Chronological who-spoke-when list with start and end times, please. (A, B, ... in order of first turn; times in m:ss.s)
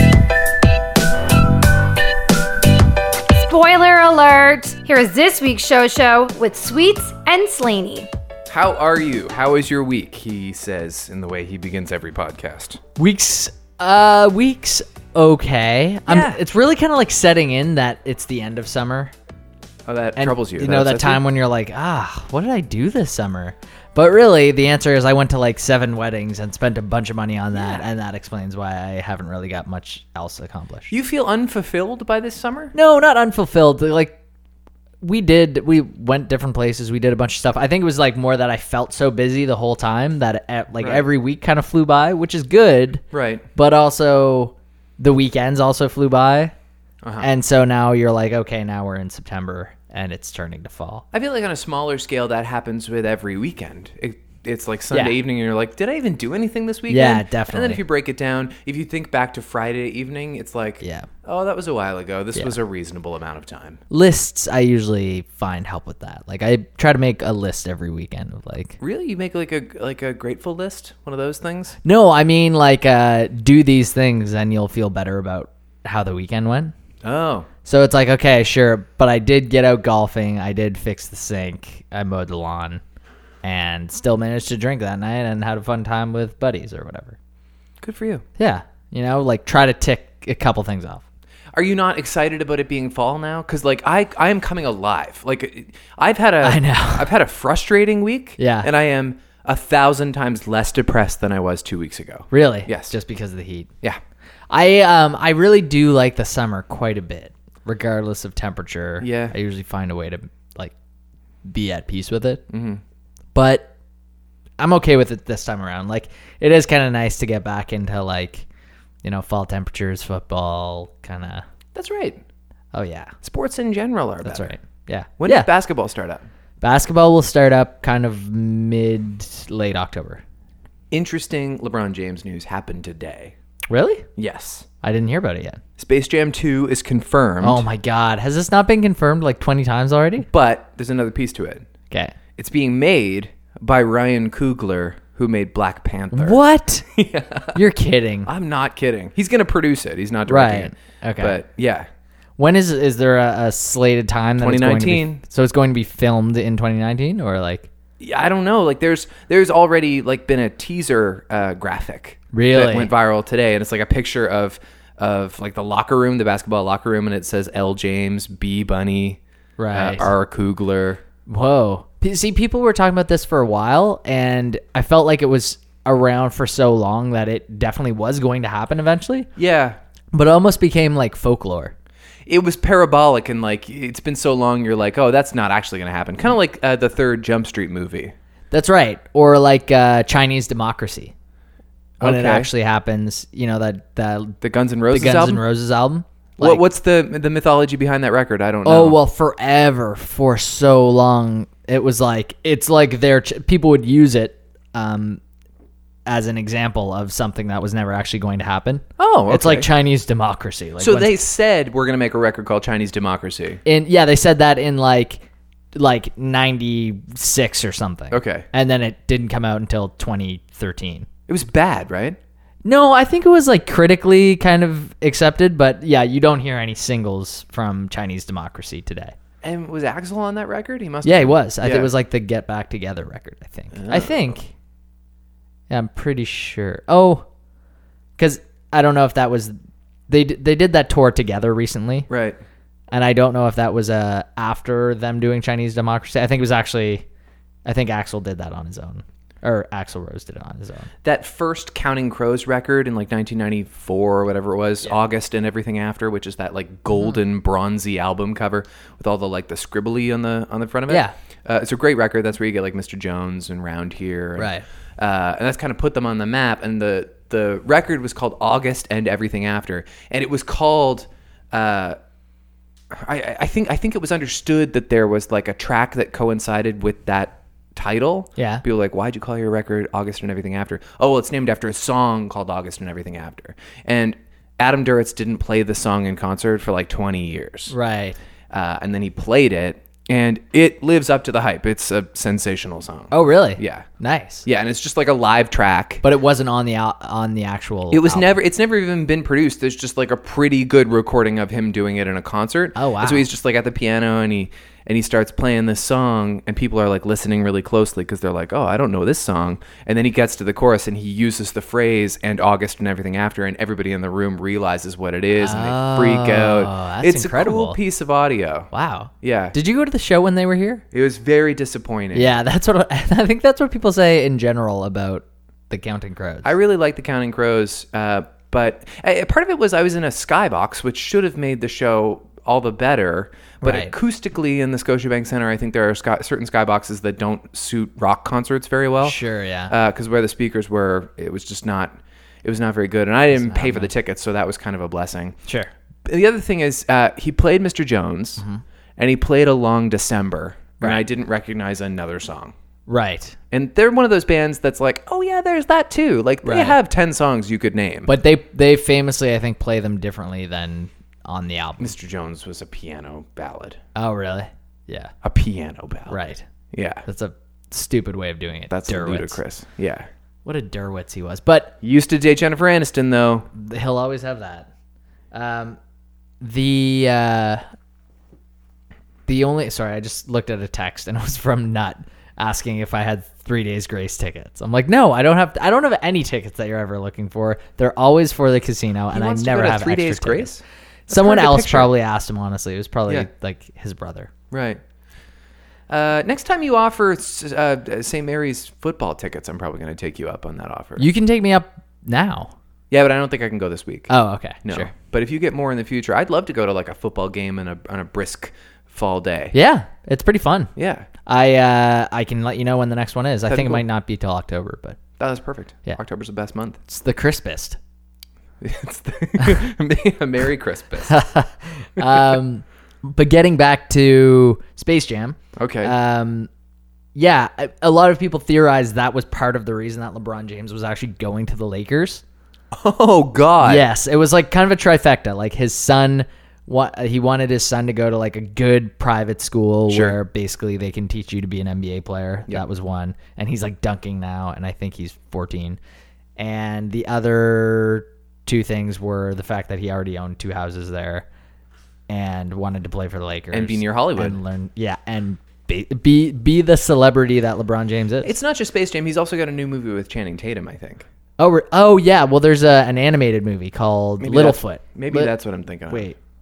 0:03.3-0:08.1 A
0:08.5-0:12.8 B
0:13.0-0:19.1 C
0:16.1-0:16.4 B
0:19.9-0:21.2 B
0:20.2-0:30.9 C
0:27.6-0:27.8 B
0:30.9-0:32.8 B
0:32.8-0:34.2 C
0:35.0-0:43.0 C
0:40.8-0:41.1 B
0:43.1-0:43.4 B
0:43.6-0:46.5 C
0:47.0-0:47.3 B
0:47.2-0:51.0 C
0:51.1-1:03.8 B
0:56.9-0:57.8 C
1:00.8-1:01.1 C
1:03.9-1:08.8 C
1:08.8-1:11.8 B
1:11.8-1:16.7 C
1:17.0-1:17.5 B
1:17.6-1:22.8 C
1:23.4-1:27.2 C
1:27.8-1:28.2 B
1:28.4-1:31.0 C
1:31.6-1:42.9 B
1:36.4-1:37.1 C
1:38.4-1:38.7 C
1:42.3-1:43.7 C
1:44.5-1:50.7 C
1:49.0-1:49.4 B
1:51.4-1:52.4 C
1:52.5-1:52.8 B
1:53.4-1:53.7 C
1:54.6-1:58.5 C
1:59.0-2:01.5 C
2:01.8-2:02.2 B
2:02.7-2:03.1 C
2:03.2-2:04.5 B
2:04.2-2:05.5 C
2:05.2-2:06.2 B
2:06.6-2:10.2 C
2:10.9-2:13.3 B
2:13.7-2:14.1 C
2:14.2-2:14.7 B
2:14.8-2:15.6 C
2:15.8-2:17.6 B
2:17.4-2:20.3 C
2:20.3-2:21.7 B
2:21.9-2:22.2 C
2:22.4-2:27.6 B
2:26.1-2:26.8 C
2:27.6-2:28.3 C
2:28.3-2:31.9 B
2:30.3-2:31.4 C
2:32.4-2:37.7 C
2:34.4-2:35.2 B
2:38.0-2:49.2 B
2:42.3-2:42.9 C
2:49.6-2:50.1 C
2:49.7-2:51.0 B
2:51.3-2:59.3 C
2:59.4-2:59.8 B
3:00.1-3:01.7 C
3:02.3-3:08.1 B
3:08.5-3:11.1 C
3:12.0-3:12.5 B
3:12.0-3:14.4 C
3:14.4-3:15.4 B
3:14.9-3:16.6 C
3:16.4-3:19.0 B
3:18.6-3:25.2 C
3:26.1-3:31.1 C
3:29.0-3:29.7 B
3:30.8-3:33.6 B
3:33.6-3:41.1 C
3:38.1-3:38.5 B
3:41.3-3:42.2 B
3:42.6-3:49.2 C
3:49.4-3:51.9 B
3:51.0-3:54.5 C
3:53.7-3:54.3 B
3:55.7-3:57.3 C
3:58.2-3:59.6 C
4:00.1-4:02.1 C
4:02.1-4:02.4 B
4:02.9-4:07.1 C
4:07.6-4:10.9 C
4:11.0-4:32.0 B
4:20.9-4:21.1 C
4:24.4-4:24.6 C
4:32.9-4:47.8 B
4:38.4-4:38.6 C
4:47.7-4:48.2 C
4:48.5-4:53.9 B
4:53.1-4:54.4 C
4:54.4-4:56.0 B
4:56.0-4:58.4 C
4:57.9-5:18.7 B
5:02.8-5:03.3 C
5:15.4-5:17.8 C
5:18.7-5:20.8 C
5:19.2-5:19.6 B
5:20.9-5:22.4 B
5:22.1-5:26.5 C
5:26.4-5:45.4 B
5:33.6-5:33.9 C
5:39.0-5:39.7 C
5:43.3-5:43.9 C
5:46.1-5:48.4 B
5:49.0-5:52.5 B
5:52.9-5:53.4 C
5:53.5-5:58.1 B
5:56.4-5:56.8 C
5:58.1-6:01.9 C
6:01.8-6:03.8 B
6:04.0-6:05.1 C
6:05.2-6:06.2 B
6:06.1-6:06.4 C
6:06.7-6:07.0 B
6:07.1-6:09.4 C
6:08.7-6:10.1 B
6:10.4-6:11.8 C
6:11.8-6:13.5 B
6:13.5-6:14.7 C
6:15.3-6:15.8 C
6:16.4-6:17.6 C
6:19.3-6:30.5 C
6:29.1-6:31.9 B
6:31.1-6:34.3 C
6:34.5-6:34.8 B
6:35.9-6:41.1 B
6:41.0-6:42.5 C
6:42.9-6:44.1 B
6:44.1-6:44.9 C
6:44.6-6:49.6 B
6:49.5-6:50.7 C
6:50.8-6:51.1 B
6:51.3-6:55.0 C
6:53.5-6:53.8 B
6:55.2-6:56.8 B
6:56.9-6:57.8 C
6:58.6-7:01.2 B
7:01.1-7:06.5 C
7:02.0-7:02.4 B
7:05.6-7:06.0 B
7:07.2-7:12.2 C
7:12.7-7:13.9 B
7:13.6-7:25.8 C
7:19.9-7:20.2 B
7:26.4-7:31.3 C
7:32.1-7:38.3 C
7:33.5-7:34.4 B
7:38.2-7:41.1 B
7:41.4-7:45.3 C
7:44.2-7:46.1 B
7:45.9-7:46.2 C